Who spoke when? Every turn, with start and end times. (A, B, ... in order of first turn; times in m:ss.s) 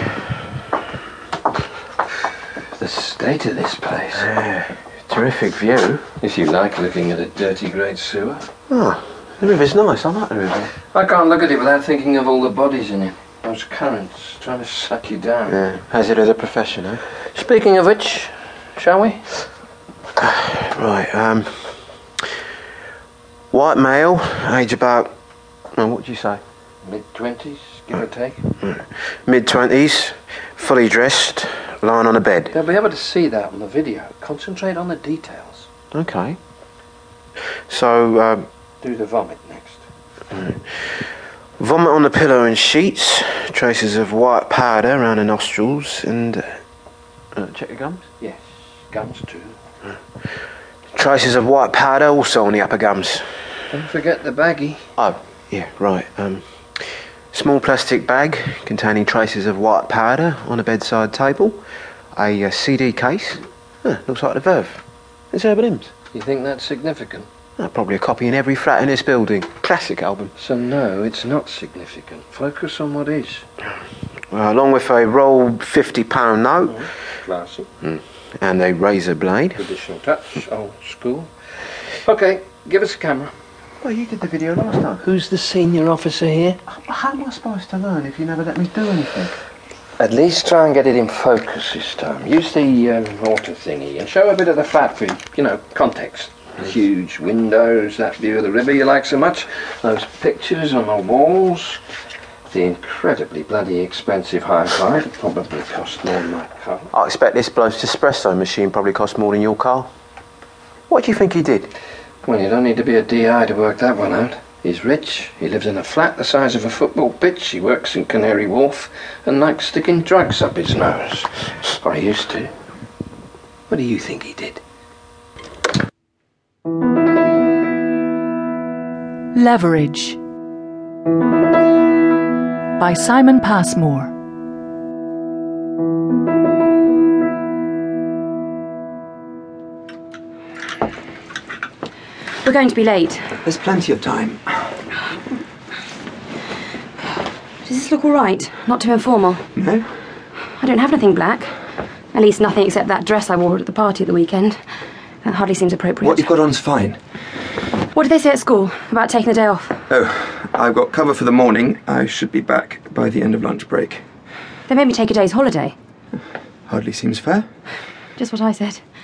0:02.8-0:04.3 A
0:04.2-0:06.0 B
0:06.2-0:08.5 A
0:08.7-0:10.7 B
0:10.9-0:15.6 A
0:15.5-0:17.0 B
0:17.3-0:19.4 A
0:20.2-0:21.6 B
0:23.5-0:25.1 B
0:25.8-0:26.4 B
0:26.8-0:28.4 A
0:28.6-0:32.5 B
0:32.5-0:35.7 A
0:35.9-0:36.4 B
0:37.7-0:38.5 B
0:38.8-0:39.8 A
0:40.3-0:40.6 B
0:41.6-0:46.5 B
0:47.4-0:48.0 B
0:48.2-0:49.5 A
0:50.9-0:53.2 B
0:53.7-0:54.9 A
0:55.0-0:56.4 B
0:57.3-1:01.6 B
1:02.2-1:05.9 B
1:06.1-1:07.3 A
1:07.6-1:10.3 B
1:10.4-1:13.5 A
1:14.3-1:16.8 B
1:16.6-1:17.7 A
1:17.8-1:19.6 B
1:19.6-1:21.3 A
1:22.0-1:23.3 A
1:23.8-1:25.0 B
1:25.0-1:26.6 A
1:26.7-1:29.4 B
1:30.0-1:41.8 A
1:42.5-1:46.9 A
1:46.9-1:49.9 B
1:50.9-1:51.7 B
1:52.2-2:02.5 A
2:03.7-2:04.6 A
2:09.4-2:10.2 C
2:12.8-2:14.1 C
2:22.4-2:23.2 D
2:23.4-2:24.4 E
2:27.6-2:29.4 D
2:29.6-2:29.9 E
2:30.6-2:31.5 D
2:32.1-2:34.6 D
2:35.2-2:36.3 D
2:36.0-2:37.0 E
2:37.9-2:39.8 D
2:39.9-2:44.0 E
2:44.7-2:45.8 D
2:46.7-2:47.5 E
2:48.2-2:48.8 D